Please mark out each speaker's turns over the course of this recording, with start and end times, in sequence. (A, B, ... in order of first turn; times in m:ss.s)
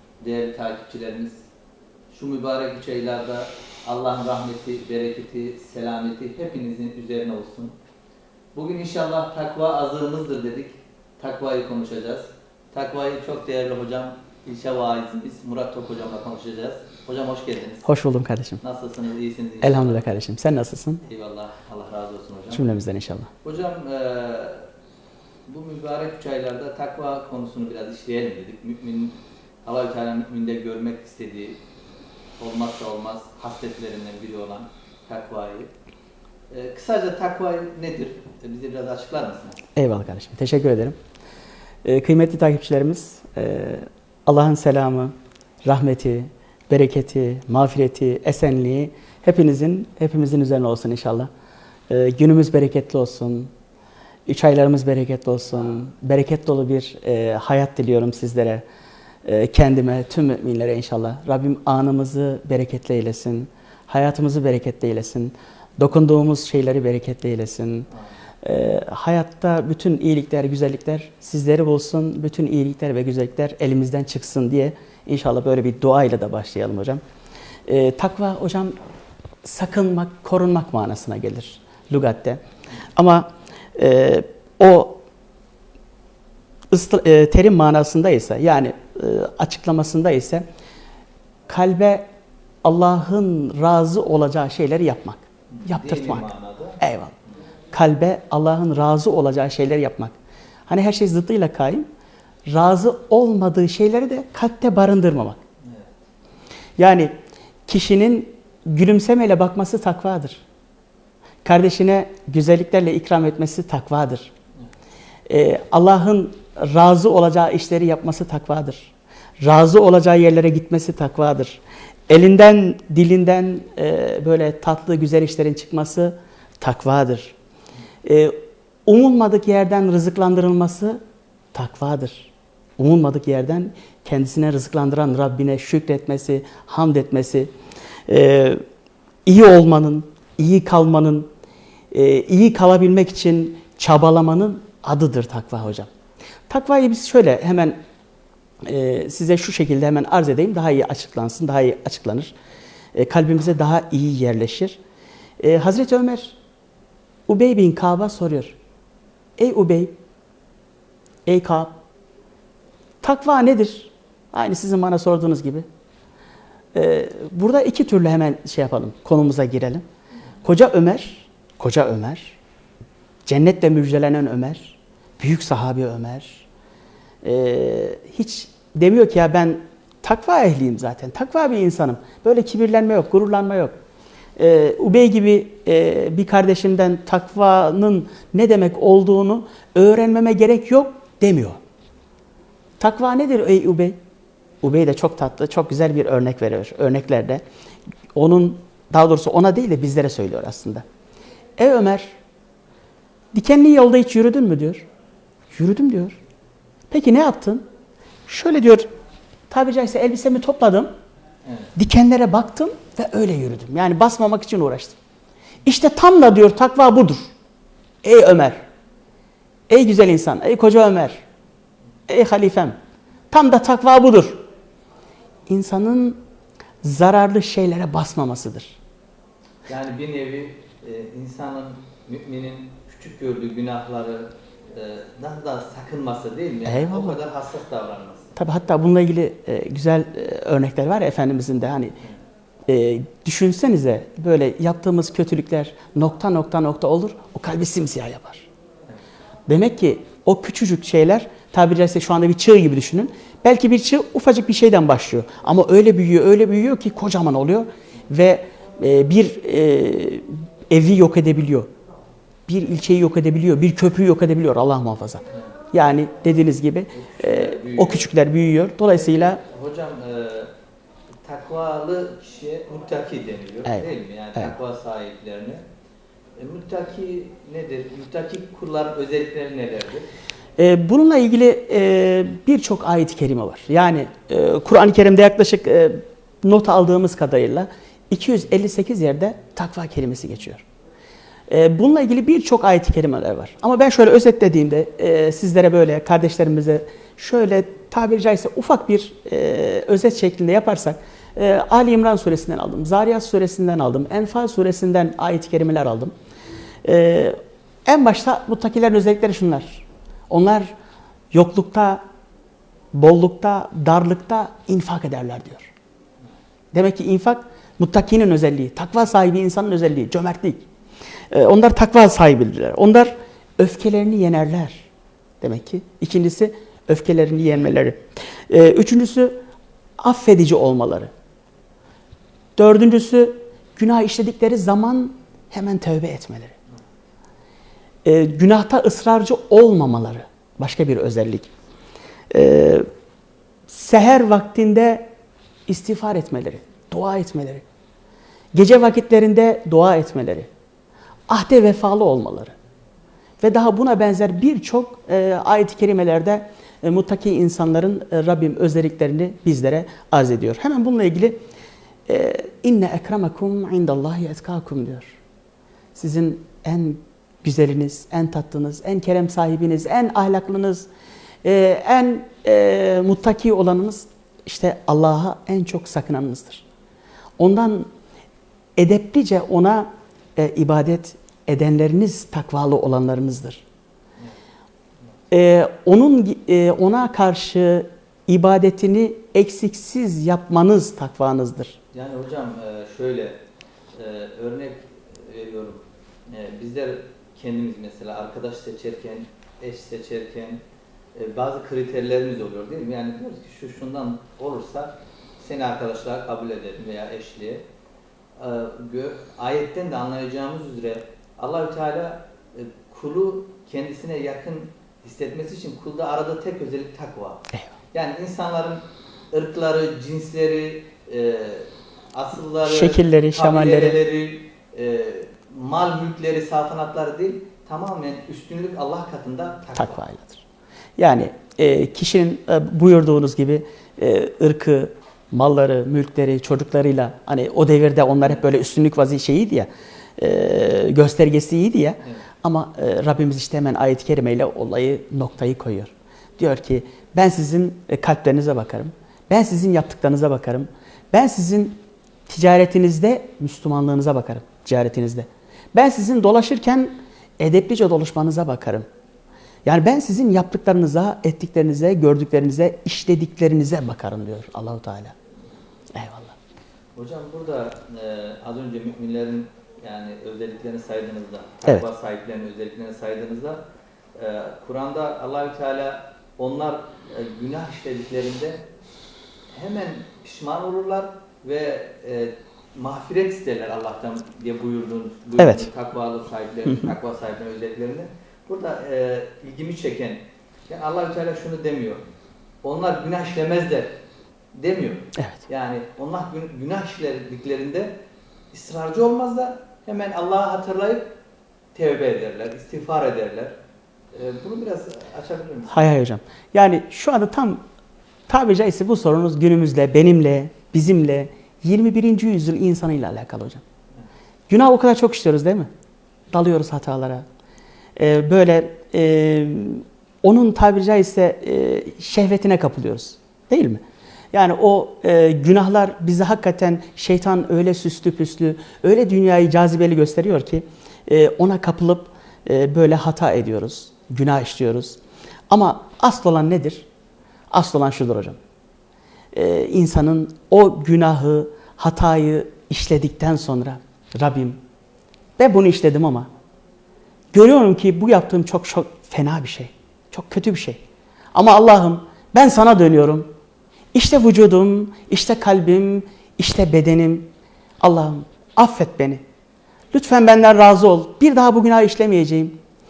0:00.2-0:01.4 A
0:02.1-0:07.8 A
0:08.6-0:17.9 A
0:17.8-0:18.6 B
0:18.6-0:20.1 A
0:19.6-0:21.0 B
0:21.0-0:22.7 A
0:22.5-0:23.3 B
0:23.4-0:24.7 A
0:25.5-0:31.6 A
0:32.4-0:35.7 A
0:36.5-0:39.6 A
0:39.8-0:41.0 B
0:41.8-0:51.3 B
0:51.9-0:53.5 B
0:54.3-0:58.6 B
0:59.2-1:07.9 B
1:08.4-1:17.0 B
1:17.7-1:18.8 B
1:19.4-1:22.4 B
1:23.0-1:25.0 B
1:26.7-1:30.4 B
1:31.5-1:32.1 B
1:32.6-1:36.3 B
1:35.5-1:36.8 A
1:36.8-1:37.1 B
1:37.7-1:40.2 B
1:40.7-1:41.9 B
1:42.5-1:45.4 B
1:45.6-1:46.0 A
1:46.8-1:47.1 B
1:47.7-1:50.4 B
1:51.4-1:54.3 B
1:55.3-2:07.4 B
2:08.0-2:11.0 B
2:11.5-2:17.5 B
2:18.1-2:18.6 B
2:19.3-2:21.3 B
2:21.9-2:25.9 B
2:26.5-2:27.8 B
2:28.6-2:32.4 B
2:32.9-2:34.8 B
2:35.4-2:36.4 B
2:37.3-2:38.6 B
2:39.4-2:39.9 B
2:41.3-2:41.7 B
2:43.0-2:45.7 B
2:46.7-2:49.8 B
2:50.4-2:52.4 B
2:53.3-2:56.4 B
2:57.2-3:03.7 B
3:04.4-3:11.6 B
3:12.8-3:14.0 B
3:14.6-3:17.4 B
3:18.1-3:20.8 B
3:21.6-3:22.1 B
3:23.3-3:24.9 B
3:25.5-3:26.2 B
3:26.9-3:27.6 B
3:28.3-3:28.9 B
3:29.5-3:30.9 B
3:31.5-3:31.7 A
3:31.8-3:35.0 B
3:35.6-3:37.3 B
3:38.0-3:38.6 B
3:39.7-3:41.2 B
3:42.1-3:42.8 B
3:43.3-3:44.4 B
3:45.5-3:46.2 B
3:46.8-3:48.8 B
3:49.7-3:58.3 A
3:56.7-3:57.2 B
3:58.4-4:02.0 B
4:02.7-4:08.5 B
4:09.5-4:21.7 B
4:22.5-4:29.4 B
4:26.9-4:28.1 A
4:29.0-4:30.5 A
4:31.2-4:35.6 A
4:33.7-4:34.5 B
4:36.4-4:40.1 A
4:40.6-4:50.6 B
4:51.5-5:06.1 B
5:06.8-5:10.7 B
5:11.3-5:12.0 B
5:12.9-5:15.7 B
5:16.7-5:20.7 B
5:21.3-5:24.9 B
5:25.4-5:29.4 B
5:30.0-5:31.1 B
5:32.6-5:36.5 B
5:38.0-5:41.5 B
5:42.3-5:42.9 B
5:43.7-5:45.1 B
5:45.7-5:47.6 B
5:48.5-5:50.5 B
5:51.3-5:52.6 B
5:53.4-6:01.4 B
6:02.1-6:05.2 B
6:06.0-6:10.9 B
6:11.4-6:16.6 B
6:17.4-6:17.9 B
6:18.8-6:23.6 B
6:25.3-6:31.8 B
6:31.9-6:33.4 A
6:34.0-6:40.6 A
6:41.2-6:47.6 A
6:48.4-7:10.0 A
7:02.6-7:04.0 B
7:09.8-7:10.4 B
7:11.0-7:38.9 B
7:39.6-7:45.2 B
7:45.9-7:46.4 B
7:47.0-7:53.6 A
7:54.2-7:58.6 A
7:59.5-8:12.1 A
8:05.4-8:05.7 B
8:06.7-8:06.9 B
8:12.6-8:13.9 A
8:14.6-8:17.9 A
8:18.5-8:21.1 A
8:21.8-8:23.5 A
8:24.1-8:25.9 A
8:25.7-8:27.6 B
8:28.3-8:33.6 B
8:34.5-8:35.7 B
8:36.3-8:37.2 B
8:38.0-8:43.8 B
8:44.3-8:56.9 B
8:57.5-8:58.4 B
8:59.3-9:04.6 B
9:05.4-9:06.3 B
9:07.3-9:10.8 B
9:11.3-9:13.3 B
9:13.9-9:19.2 B
9:19.9-9:22.6 B